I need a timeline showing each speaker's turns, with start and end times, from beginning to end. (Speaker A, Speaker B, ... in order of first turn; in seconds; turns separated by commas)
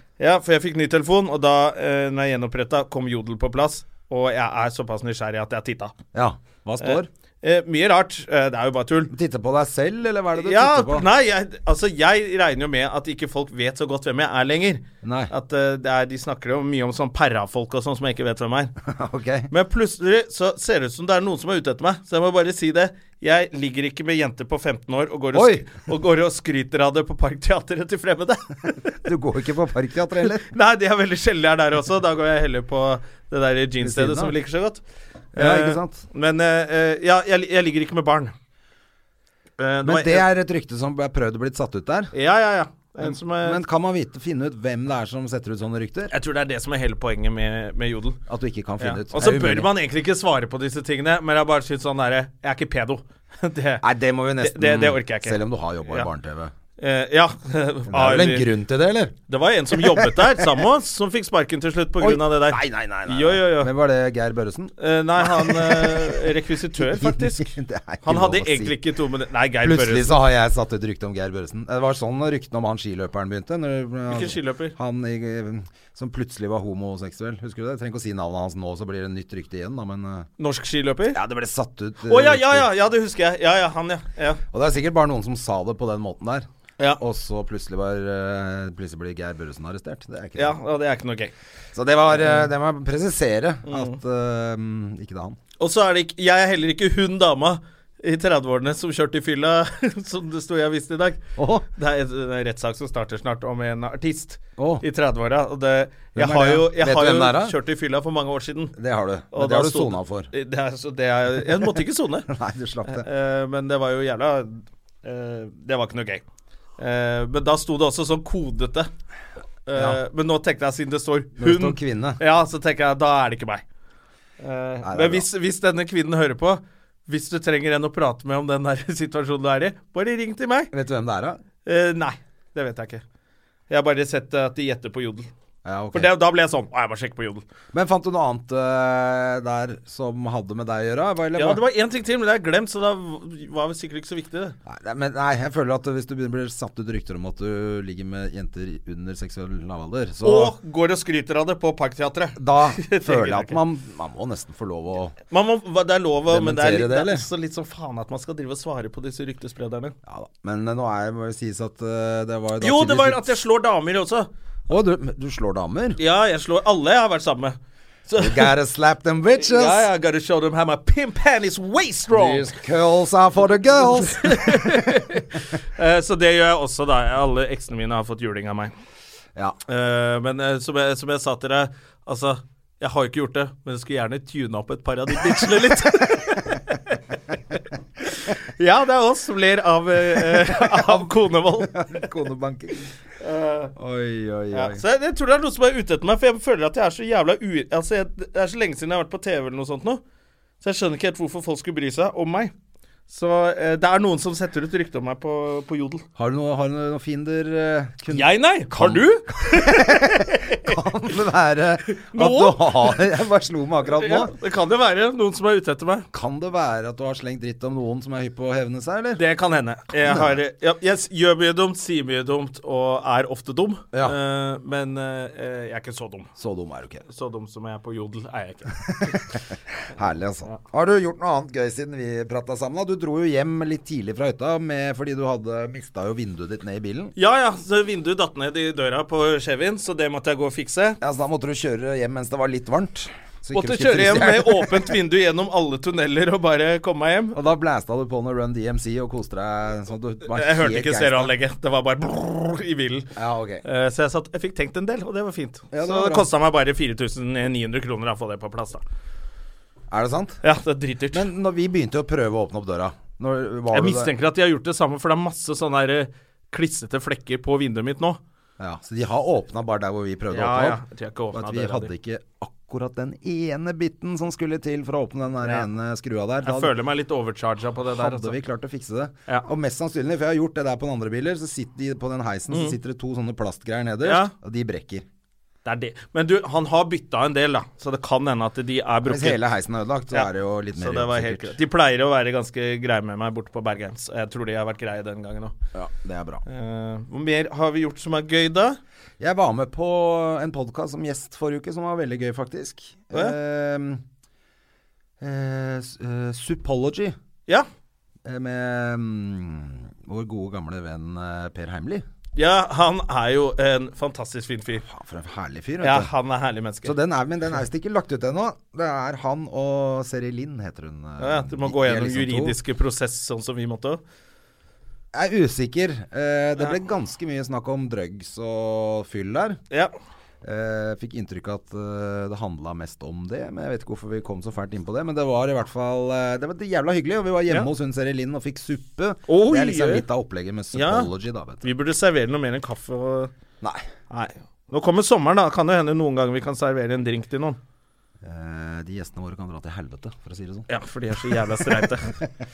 Speaker A: 0.2-5.9, Speaker B: 6.1-7.1, Speaker A: 6.8-9.1, Speaker B: 9.1-11.1, Speaker A: 10.4-18.7, Speaker B: 15.0-15.3, Speaker B: 18.8-19.5, Speaker A: 19.5-29.1, Speaker B: 25.3-25.6, Speaker B: 29.0-30.5, Speaker A: 30.3-34.8, Speaker B: 33.8-34.3, Speaker A: 35.3-38.3, Speaker B: 35.3-36.0, Speaker A: 39.6-40.3, Speaker B: 39.8-42.1, Speaker A: 42.1-43.6, Speaker B: 43.0-46.1, Speaker A: 46.1-48.2, Speaker B: 48.3-49.7, Speaker A: 48.8-53.9, Speaker B: 53.8-56.5, Speaker A: 54.4-56.1, Speaker A: 56.8-58.5, Speaker B: 57.9-59.1, Speaker A: 59.3-63.7, Speaker B: 59.7-60.6, Speaker B: 62.0-68.8, Speaker A: 64.8-67.5, Speaker A: 68.0-70.2, Speaker B: 69.6-80.3, Speaker A: 74.1-74.7, Speaker A: 80.4-81.2, Speaker B: 81.1-82.7, Speaker A: 82.1-84.4, Speaker B: 84.5-90.6, Speaker A: 90.4-91.3, Speaker B: 91.7-95.4, Speaker A: 92.1-92.5, Speaker A: 93.7-94.0, Speaker A: 95.6-101.2, Speaker B: 101.4-101.7, Speaker A: 101.7-108.8, Speaker B: 104.6-104.8, Speaker B: 106.1-107.5, Speaker B: 108.8-110.3, Speaker A: 109.3-112.3, Speaker B: 112.3-113.1, Speaker A: 112.8-116.2, Speaker A: 116.8-118.9, Speaker A: 119.7-123.6, Speaker B: 119.7-120.0, Speaker B: 121.4-122.2, Speaker A: 124.4-130.7, Speaker B: 124.8-125.2, Speaker B: 130.7-131.4, Speaker A: 131.6-133.0, Speaker A: 133.7-135.3, Speaker B: 135.6-136.1, Speaker A: 135.9-137.4, Speaker B: 137.7-141.6, Speaker A: 141.3-144.6, Speaker B: 144.7-150.5, Speaker A: 150.2-153.6, Speaker B: 152.4-155.2, Speaker A: 155.3-159.9, Speaker B: 156.3-157.2, Speaker B: 160.1-163.4, Speaker A: 162.6-164.3, Speaker B: 164.7-166.0, Speaker A: 166.0-167.6, Speaker A: 168.1-168.5, Speaker B: 168.2-169.9, Speaker A: 169.4-172.5, Speaker B: 172.1-175.0, Speaker A: 174.1-178.7, Speaker A: 179.7-192.0, Speaker B: 190.2-192.9, Speaker A: 193.2-193.7, Speaker B: 193.8-194.8, Speaker A: 194.5-200.0, Speaker A: 200.6-202.5, Speaker A: 203.1-206.0, Speaker B: 206.2-214.3, Speaker A: 208.1-210.8, Speaker A: 211.9-213.1, Speaker A: 213.9-216.1, Speaker B: 216.1-219.2, Speaker A: 219.2-226.3, Speaker B: 220.0-220.4, Speaker B: 226.4-227.0, Speaker A: 227.1-229.2, Speaker B: 228.9-237.1, Speaker A: 237.2-241.0, Speaker B: 241.0-244.9, Speaker A: 243.5-247.4, Speaker B: 247.3-251.3, Speaker A: 250.3-258.8, Speaker B: 253.2-253.6, Speaker B: 255.7-256.3, Speaker B: 259.9-260.4, Speaker A: 260.4-261.3, Speaker B: 261.1-264.1, Speaker A: 263.7-268.2, Speaker B: 268.6-270.8, Speaker A: 270.3-271.9, Speaker B: 271.3-276.7, Speaker A: 276.4-278.4, Speaker B: 277.9-285.0, Speaker A: 282.5-282.8, Speaker A: 284.0-284.3, Speaker A: 285.6-289.4, Speaker B: 289.0-291.6, Speaker A: 290.1-295.5, Speaker B: 295.7-296.4, Speaker A: 296.4-298.8, Speaker B: 299.2-304.0, Speaker B: 305.2-307.1, Speaker B: 308.2-312.0, Speaker A: 312.4-314.8, Speaker B: 314.8-316.1, Speaker A: 315.8-317.0, Speaker B: 316.8-322.6, Speaker A: 321.2-324.0, Speaker B: 325.1-329.6, Speaker B: 330.4-341.6, Speaker A: 339.3-340.0, Speaker A: 340.7-341.1, Speaker A: 341.6-343.3, Speaker B: 343.6-343.9, Speaker A: 344.1-347.6, Speaker B: 348.2-350.7, Speaker A: 350.7-352.1, Speaker B: 351.3-351.9